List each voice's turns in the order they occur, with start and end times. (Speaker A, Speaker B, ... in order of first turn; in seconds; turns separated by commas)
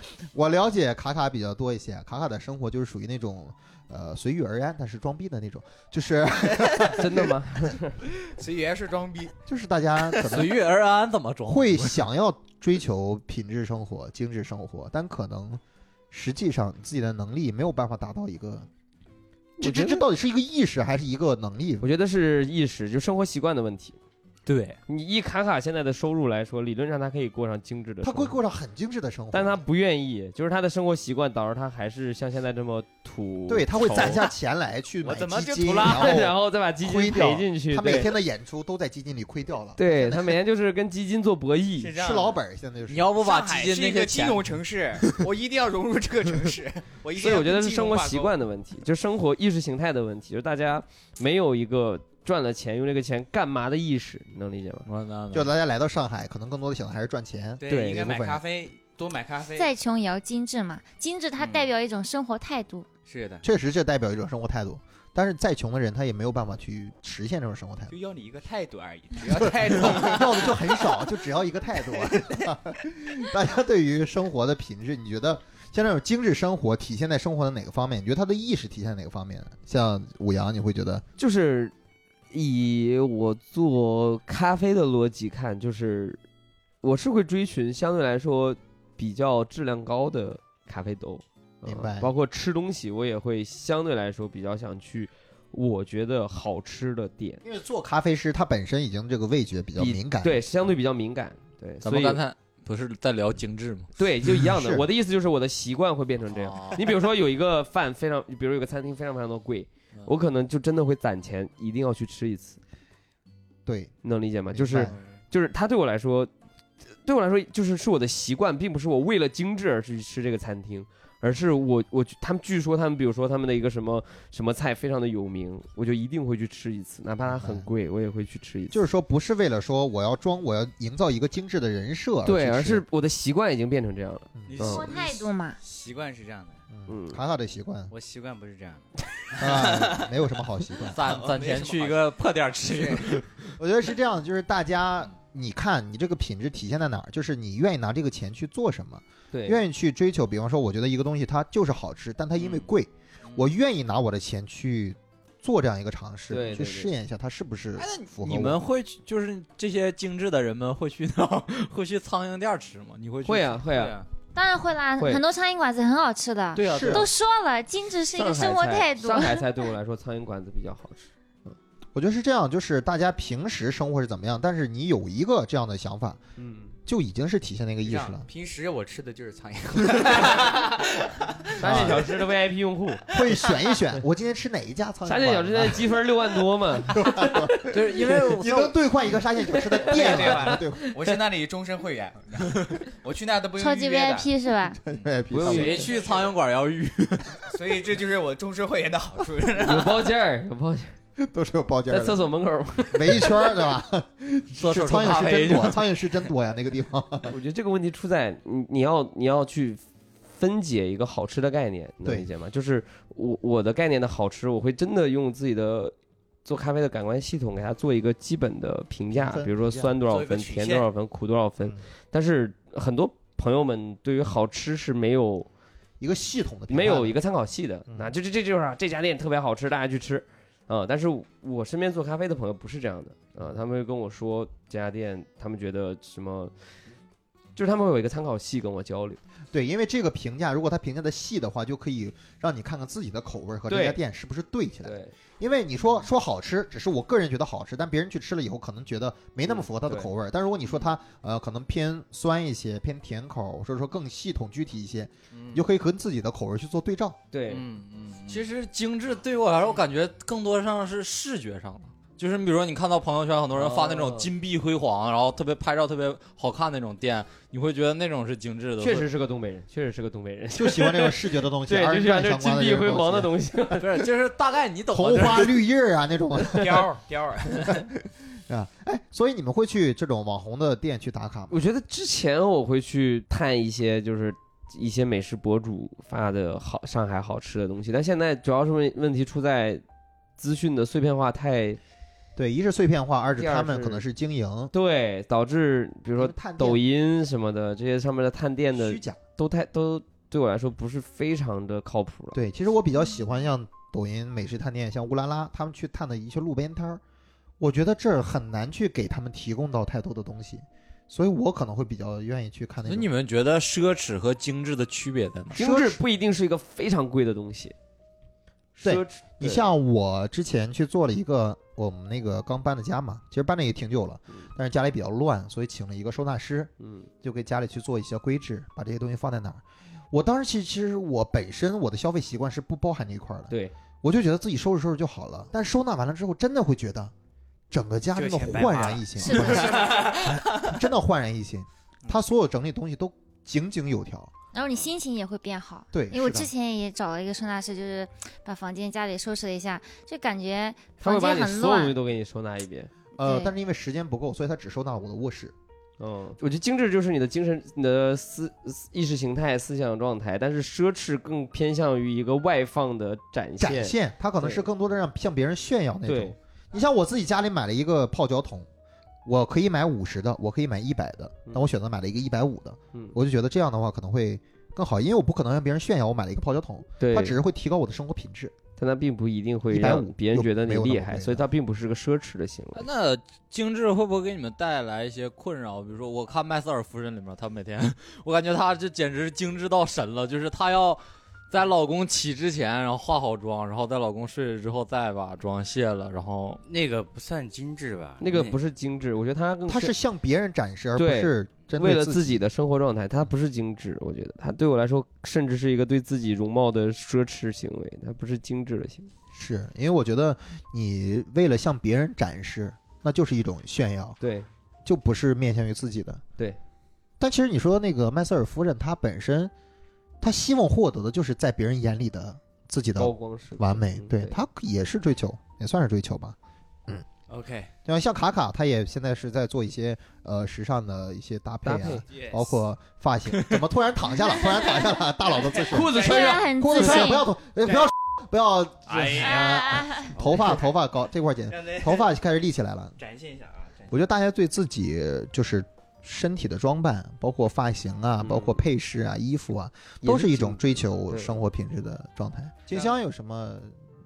Speaker A: 0.3-7.3, Speaker B: 6.9-8.0, Speaker C: 8.2-9.3, Speaker A: 9.5-10.6, Speaker D: 10.3-12.1, Speaker A: 11.5-18.7, Speaker B: 19.6-20.0, Speaker A: 19.6-21.9, Speaker B: 21.8-24.0, Speaker D: 24.4-24.8, Speaker B: 24.9-28.4, Speaker A: 28.0-29.6, Speaker B: 29.3-34.2, Speaker A: 33.5-39.8, Speaker C: 35.0-36.2, Speaker B: 35.8-38.1, Speaker B: 39.8-41.9, Speaker C: 41.8-42.4, Speaker A: 41.9-43.1, Speaker D: 42.9-44.6, Speaker C: 43.2-48.3, Speaker B: 47.1-54.9, Speaker D: 54.9-55.5, Speaker A: 55.3-58.4, Speaker C: 57.6-59.7, Speaker B: 57.7-58.0, Speaker E: 59.5-62.9, Speaker C: 61.4-61.7, Speaker C: 63.0-63.4, Speaker A: 63.4-67.9, Speaker C: 67.9-71.1, Speaker A: 69.4-81.0, Speaker B: 81.2-81.7, Speaker B: 82.3-86.2, Speaker B: 86.8-97.4, Speaker A: 91.6-92.1, Speaker A: 97.4-100.4, Speaker B: 99.8-102.2, Speaker D: 101.8-103.9, Speaker B: 104.0-112.6, Speaker A: 104.2-104.8, Speaker D: 106.3-106.8, Speaker A: 113.7-113.9, Speaker B: 114.0-116.3, Speaker A: 114.5-114.9, Speaker B: 117.0-128.8, Speaker A: 127.2-127.7, Speaker A: 128.7-132.8, Speaker B: 132.2-134.9, Speaker A: 134.3-134.9, Speaker C: 134.5-136.6, Speaker E: 134.6-135.6, Speaker A: 136.7-137.9, Speaker B: 136.9-137.2, Speaker C: 137.9-140.1, Speaker A: 139.4-141.2, Speaker D: 140.8-143.2, Speaker C: 141.1-143.2, Speaker A: 143.6-158.6, Speaker B: 149.3-149.6, Speaker C: 152.4-152.7, Speaker C: 153.2-153.5, Speaker B: 156.3-156.9, Speaker D: 157.8-163.6, Speaker B: 163.2-164.0, Speaker C: 163.7-164.1, Speaker E: 164.3-169.4, Speaker D: 166.5-167.1, Speaker A: 166.7-167.1, Speaker B: 168.2-171.1, Speaker A: 171.5-176.2, Speaker B: 176.4-176.7, Speaker A: 176.8-178.3, Speaker C: 177.8-182.0, Speaker B: 181.6-183.1, Speaker A: 181.6-182.0, Speaker A: 183.1-185.9, Speaker B: 185.1-187.7, Speaker A: 186.9-191.0, Speaker D: 187.7-188.8, Speaker B: 189.8-190.8, Speaker C: 189.9-194.3, Speaker E: 193.6-194.8, Speaker A: 194.8-195.9, Speaker B: 195.3-195.9, Speaker C: 195.4-196.4, Speaker D: 195.4-197.4, Speaker C: 197.5-200.1, Speaker B: 199.6-200.9, Speaker A: 201.2-202.2, Speaker B: 201.9-203.3, Speaker A: 202.9-207.3, Speaker D: 204.6-205.8, Speaker B: 207.3-209.8, Speaker B: 210.3-225.5, Speaker A: 219.1-219.9, Speaker C: 220.1-220.9, Speaker A: 226.0-227.2, Speaker B: 226.7-236.5, Speaker A: 227.9-228.1, Speaker B: 237.6-239.2, Speaker A: 239.5-257.2, Speaker B: 243.7-244.0, Speaker B: 244.8-245.1, Speaker B: 249.4-250.1, Speaker C: 255.3-255.6, Speaker B: 257.3-257.6, Speaker C: 257.5-258.5, Speaker D: 258.3-269.1, Speaker B: 263.5-264.3, Speaker B: 268.8-274.1, Speaker A: 270.5-273.3, Speaker D: 273.8-275.6, Speaker A: 274.9-276.9, Speaker C: 276.5-277.9, Speaker A: 277.6-281.6, Speaker B: 281.5-289.8, Speaker B: 290.4-291.8, Speaker A: 292.4-294.7, Speaker B: 293.4-294.0, Speaker B: 294.7-302.4, Speaker A: 296.2-296.8, Speaker A: 298.7-299.2, Speaker A: 302.3-307.0, Speaker A: 307.6-313.1, Speaker D: 312.9-315.6, Speaker A: 315.5-316.0, Speaker B: 315.5-317.7, Speaker A: 318.8-337.1, Speaker B: 318.8-319.6, Speaker B: 326.8-327.1, Speaker A: 337.7-344.3, Speaker C: 338.1-340.8, Speaker E: 339.2-340.1, Speaker E: 344.5-352.0, Speaker A: 345.9-346.5, Speaker B: 351.0-352.9, Speaker A: 353.2-355.5, Speaker E: 353.2-353.5, Speaker B: 356.0-364.7, Speaker A: 363.6-368.7, Speaker B: 366.1-366.4, Speaker A: 369.2-378.5, Speaker B: 377.0-377.4, Speaker B: 378.8-382.9, Speaker A: 379.7-381.4, Speaker D: 382.7-396.6, Speaker C: 396.6-398.6, Speaker B: 398.2-399.9, Speaker A: 399.7-402.4, Speaker B: 400.9-409.1, Speaker A: 409.3-414.2, Speaker B: 414.2-414.5, Speaker A: 414.8-416.2, Speaker A: 417.2-419.5, Speaker A: 420.2-426.4, Speaker B: 422.9-424.4, Speaker C: 427.3-427.7, Speaker A: 427.9-443.0, Speaker B: 431.6-432.0, Speaker C: 432.1-432.5, Speaker C: 435.6-436.3, Speaker B: 435.7-437.2, Speaker E: 435.9-437.3, Speaker D: 438.9-439.2, Speaker C: 439.0-439.4, Speaker E: 439.2-440.1, Speaker C: 440.2-440.6, Speaker C: 441.5-442.1, Speaker C: 443.0-444.0, Speaker A: 443.9-453.7, Speaker B: 448.2-448.6, Speaker B: 450.0-451.4, Speaker C: 452.7-452.9